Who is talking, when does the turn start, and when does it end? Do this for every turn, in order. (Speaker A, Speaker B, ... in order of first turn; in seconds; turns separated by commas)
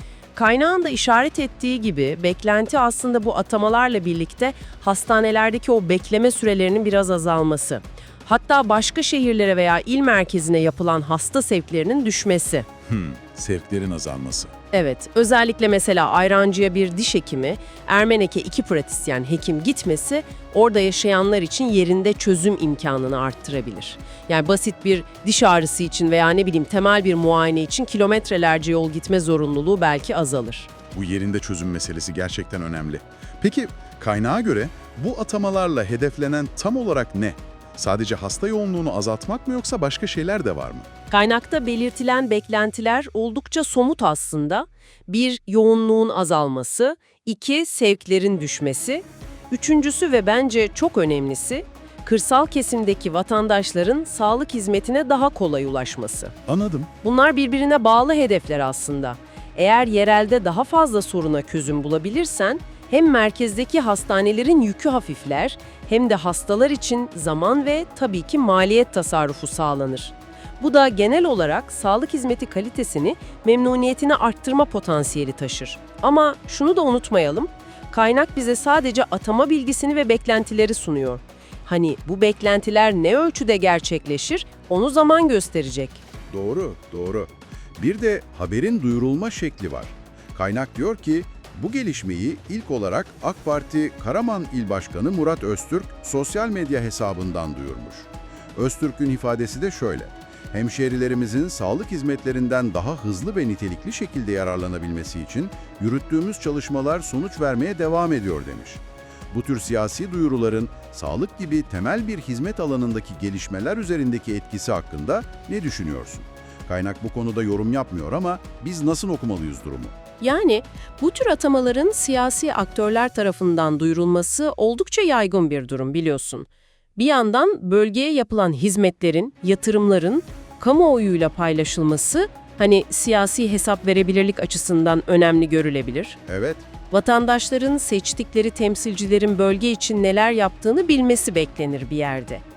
Speaker A: 0.3-12.7, Speaker B: 12.9-14.5, Speaker A: 14.7-30.7, Speaker B: 30.9-40.9, Speaker A: 41.1-56.4, Speaker B: 56.5-56.9, Speaker A: 57.0-86.0, Speaker B: 86.3-119.9, Speaker A: 120.2-136.2, Speaker B: 136.3-136.7, Speaker A: 136.9-142.4